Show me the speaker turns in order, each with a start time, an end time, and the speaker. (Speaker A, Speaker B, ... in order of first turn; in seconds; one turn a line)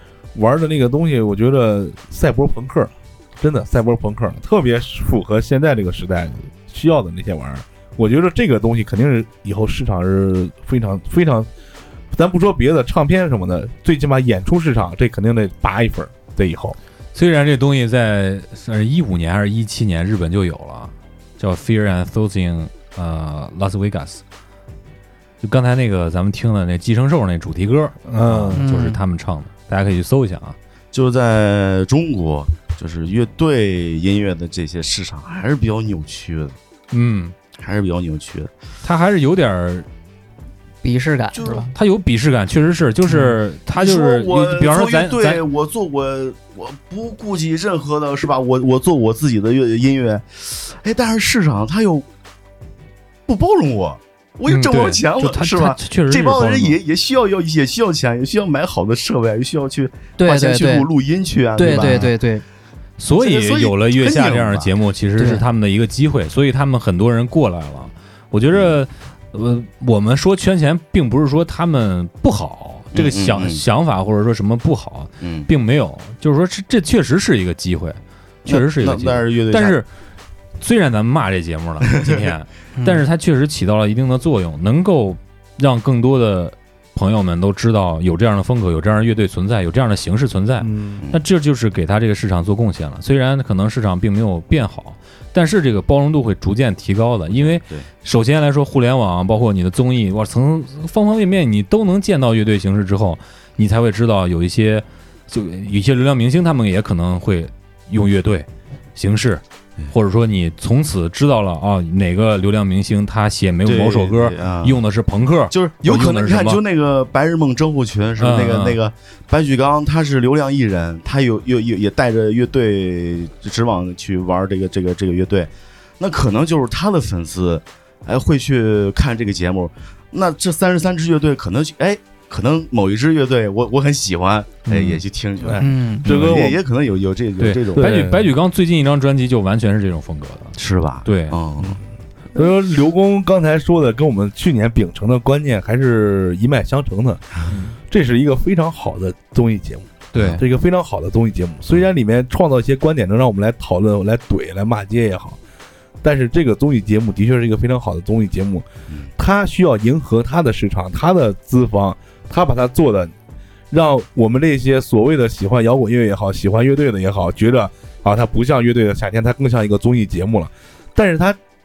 Speaker A: 0.3-11.5
Speaker A: 12.1-16.8
Speaker B: 17.1-24.2
Speaker B: 25.4-30.6
Speaker A: 28.1-28.6
Speaker C: 28.5-29.0
Speaker D: 30.9-36.5
Speaker B: 36.9-37.3
Speaker D: 37.6-38.5
Speaker B: 38.8-39.9
Speaker C: 40.8-41.7
Speaker D: 41.3-41.7
Speaker B: 41.7-45.4
Speaker D: 43.7-52.0
Speaker D: 53.3-62.1
Speaker B: 54.5-56.8
Speaker C: 60.2-60.9
Speaker C: 61.5-62.4
Speaker B: 61.6-62.1
Speaker B: 63.0-79.9
Speaker D: 63.1-64.7
Speaker C: 65.2-65.4
Speaker D: 72.9-73.6
Speaker D: 75.2-75.5
Speaker D: 78.4-79.8
Speaker B: 80.6-116.6
Speaker D: 81.9-82.2
Speaker C: 82.8-83.0
Speaker A: 90.6-91.0
Speaker D: 97.3-97.9
Speaker D: 113.6-114.8
Speaker D: 115.5-138.0
Speaker B: 118.2-118.8
Speaker B: 134.7-135.0
Speaker A: 134.9-136.6
Speaker C: 135.6-136.1
Speaker B: 137.4-140.5
Speaker A: 137.7-138.2
Speaker D: 140.6-141.8
Speaker B: 141.0-141.4
Speaker A: 142.3-147.2
Speaker A: 147.9-155.4
Speaker B: 150.1-150.4
Speaker A: 156.0-158.7
Speaker A: 159.2-163.1
Speaker A: 163.7-171.4